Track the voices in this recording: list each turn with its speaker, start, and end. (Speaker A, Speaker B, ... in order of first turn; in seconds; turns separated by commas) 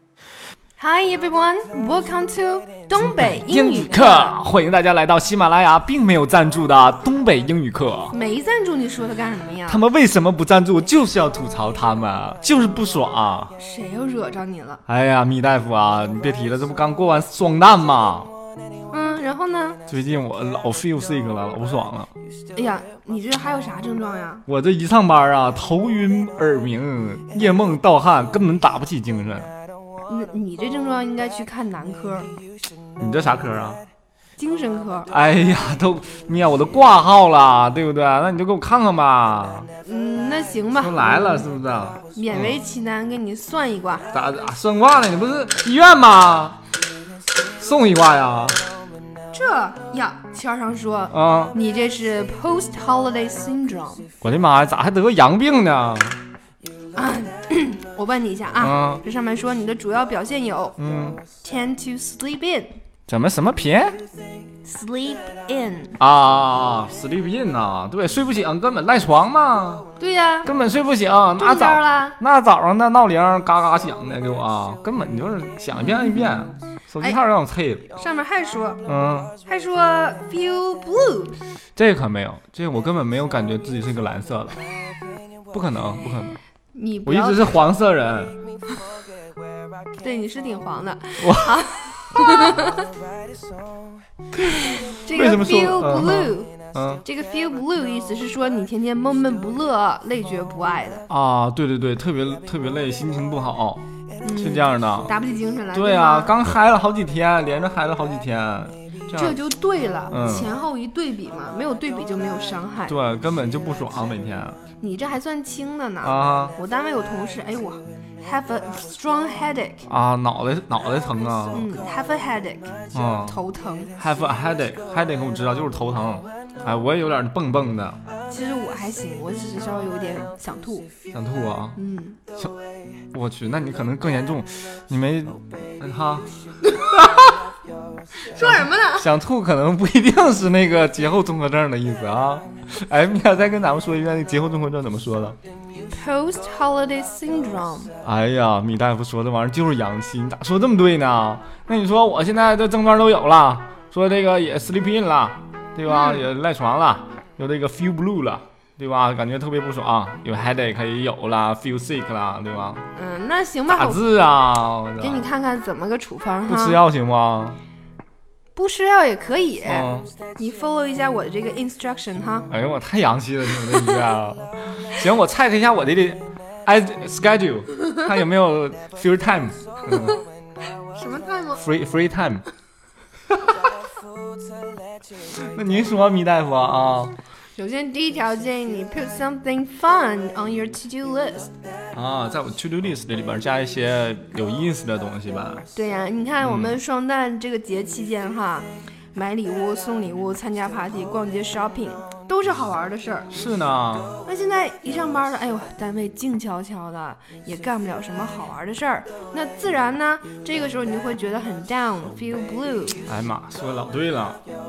Speaker A: 0.8-4.3, Speaker B: 3.0-8.1, Speaker A: 8.1-9.8, Speaker B: 9.7-13.5, Speaker A: 13.6-14.8, Speaker B: 14.9-18.3, Speaker A: 18.9-19.8, Speaker B: 19.9-22.1, Speaker A: 22.5-24.4, Speaker B: 24.5-29.5, Speaker A: 30.0-32.3, Speaker B: 33.0-33.8, Speaker A: 34.4-35.1, Speaker B: 35.1-39.7, Speaker A: 39.8-41.5, Speaker B: 40.8-42.6, Speaker A: 42.1-44.1, Speaker B: 44.1-46.6, Speaker B: 47.6-48.6, Speaker A: 49.3-54.1, Speaker B: 51.1-51.5, Speaker B: 54.2-56.2, Speaker A: 56.9-62.7, Speaker B: 58.6-59.0, Speaker B: 60.8-61.2, Speaker B: 63.1-64.0, Speaker A: 64.6-66.0, Speaker B: 66.0-69.8, Speaker A: 70.0-70.5, Speaker B: 70.4-77.9, Speaker A: 71.4-72.2, Speaker A: 75.8-76.3, Speaker A: 77.9-78.8, Speaker B: 78.8-79.3, Speaker A: 79.4-81.4, Speaker B: 81.8-84.6, Speaker B: 85.5-86.4, Speaker A: 86.7-87.6, Speaker B: 87.0-88.4, Speaker A: 90.0-92.9, Speaker B: 91.2-91.7, Speaker A: 94.3-101.0, Speaker B: 95.0-97.0, Speaker B: 101.1-103.8, Speaker A: 104.2-106.3, Speaker B: 104.3-105.1, Speaker B: 105.7-109.4, Speaker A: 109.1-113.0, Speaker B: 110.1-110.5, Speaker B: 112.9-114.6, Speaker A: 114.8-119.9, Speaker B: 116.0-116.5, Speaker B: 119.9-121.7, Speaker A: 121.5-123.9, Speaker B: 122.9-123.4, Speaker B: 124.0-128.0, Speaker A: 128.3-130.9, Speaker B: 131.1-131.8, Speaker A: 131.8-132.2, Speaker B: 133.1-137.5, Speaker A: 138.2-139.1, Speaker B: 138.3-145.4, Speaker A: 145.8-147.9, Speaker B: 148.0-162.8, Speaker A: 155.8-156.2, Speaker A: 162.9-164.0, Speaker B: 163.7-165.2, Speaker A: 165.0-166.8, Speaker B: 166.5-167.6, Speaker A: 168.5-172.5, Speaker B: 169.6-170.1, Speaker B: 172.5-180.2, Speaker A: 179.9-180.2, Speaker A: 180.9-181.6, Speaker B: 181.6-182.4, Speaker B: 183.3-183.6, Speaker B: 185.2-187.2, Speaker A: 187.6-191.5, Speaker B: 191.9-195.7, Speaker A: 195.7-203.3, Speaker B: 196.4-196.8, Speaker B: 203.3-204.2, Speaker A: 204.2-213.0, Speaker B: 213.1-214.4